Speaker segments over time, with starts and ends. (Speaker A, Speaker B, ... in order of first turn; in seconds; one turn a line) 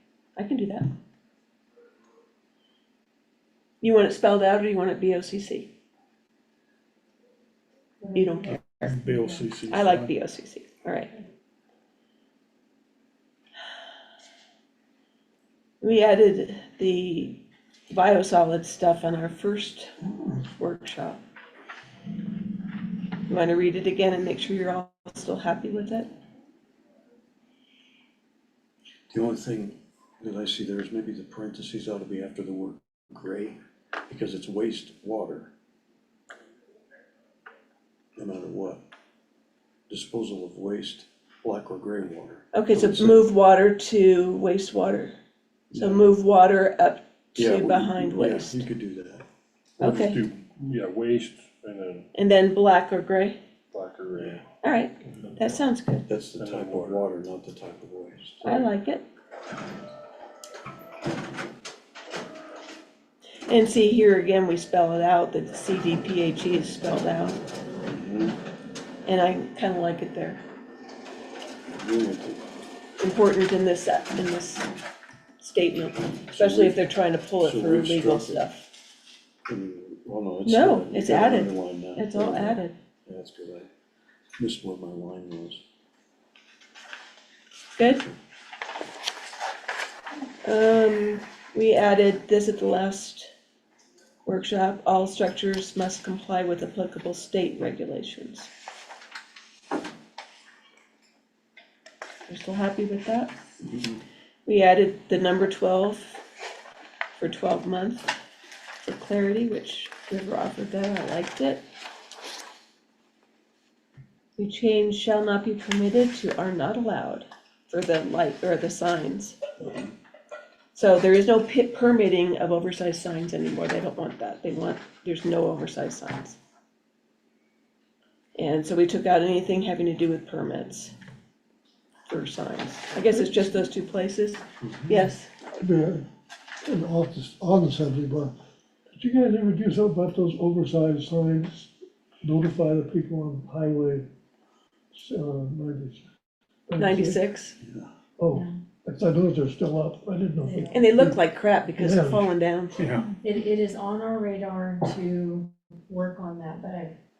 Speaker A: 0.3-0.9
Speaker A: 3.8-5.7
Speaker B: 8.0-8.5
Speaker A: 8.1-8.9
Speaker C: 8.5-10.1
Speaker A: 9.6-11.1
Speaker A: 15.8-21.2
Speaker A: 23.3-26.1
Speaker D: 29.1-35.5
Speaker D: 38.2-38.8
Speaker D: 39.9-43.3
Speaker A: 42.5-45.1
Speaker D: 45.7-46.1
Speaker A: 45.7-48.6
Speaker D: 47.4-49.2
Speaker A: 49.8-50.2
Speaker C: 49.8-52.1
Speaker A: 52.1-53.4
Speaker C: 53.7-54.4
Speaker D: 54.1-54.4
Speaker A: 54.6-56.1
Speaker C: 55.0-55.4
Speaker D: 56.1-58.7
Speaker C: 56.4-57.1
Speaker A: 58.4-59.0
Speaker A: 63.5-67.4
Speaker D: 67.9-68.4
Speaker A: 69.1-70.4
Speaker D: 71.7-72.4
Speaker A: 73.0-74.7
Speaker A: 75.4-78.7
Speaker D: 76.3-78.4
Speaker D: 79.5-83.7
Speaker A: 80.4-82.7
Speaker D: 84.4-85.6
Speaker A: 87.8-88.1
Speaker A: 90.4-93.3
Speaker A: 94.2-98.5
Speaker A: 102.3-103.3
Speaker D: 103.6-104.0
Speaker A: 104.5-106.2
Speaker A: 107.2-108.1
Speaker A: 108.8-111.6
Speaker A: 114.4-119.4
Speaker D: 119.6-119.9
Speaker A: 120.7-126.4
Speaker A: 128.3-130.9
Speaker A: 132.1-135.3
Speaker D: 134.6-135.0
Speaker E: 135.6-136.0
Speaker E: 136.6-138.3
Speaker E: 138.9-141.7
Speaker E: 142.2-144.0
Speaker E: 144.9-146.1
Speaker E: 146.7-147.2
Speaker A: 146.8-147.6
Speaker D: 147.6-147.9
Speaker E: 148.2-151.2
Speaker B: 150.4-150.9
Speaker A: 150.7-152.8
Speaker E: 151.8-152.3
Speaker C: 152.8-153.1
Speaker B: 153.2-156.9